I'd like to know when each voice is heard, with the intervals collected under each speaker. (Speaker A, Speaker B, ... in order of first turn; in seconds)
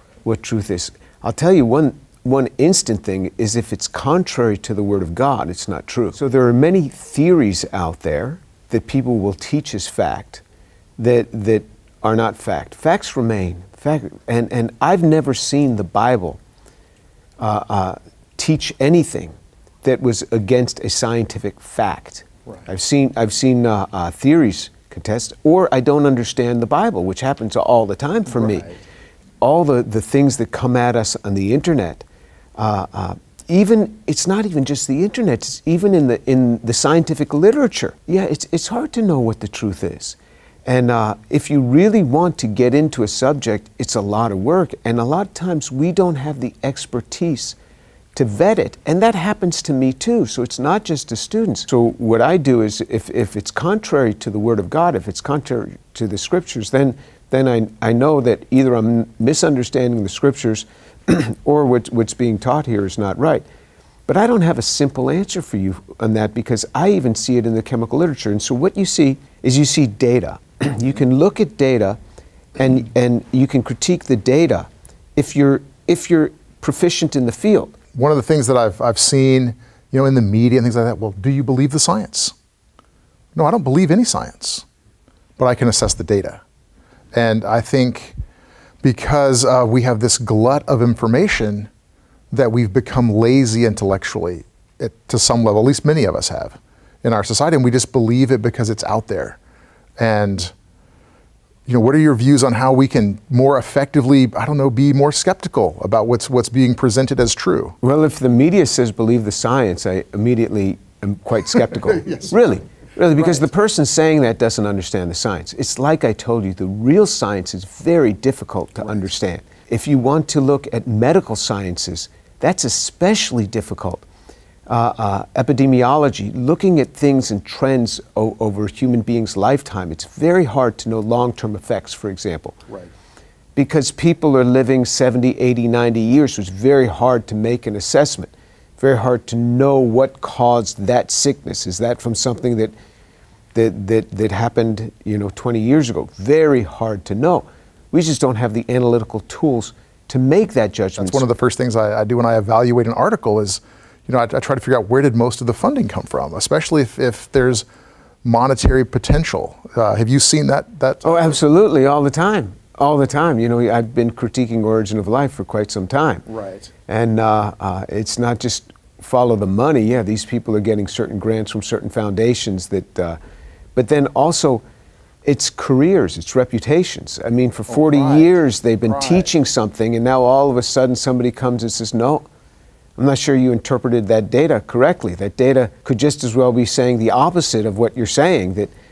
Speaker A: 0.2-10.4, 11.0-16.4, 17.4-28.7, 29.4-32.0, 32.6-47.5, 48.1-63.4, 64.1-72.0, 72.6-77.8, 107.8-124.0, 124.7-132.6, 133.6-142.7, 143.5-151.3, 161.0-173.2, 173.8-174.6, 175.2-182.2, 183.0-188.7
Speaker B: 77.9-82.3, 83.3-84.6, 85.4-86.4, 87.1-88.1, 88.8-91.7, 92.3-99.4, 100.0-100.5, 101.7-107.8, 151.0-157.7, 158.2-161.4, 166.3-166.7, 177.8-178.3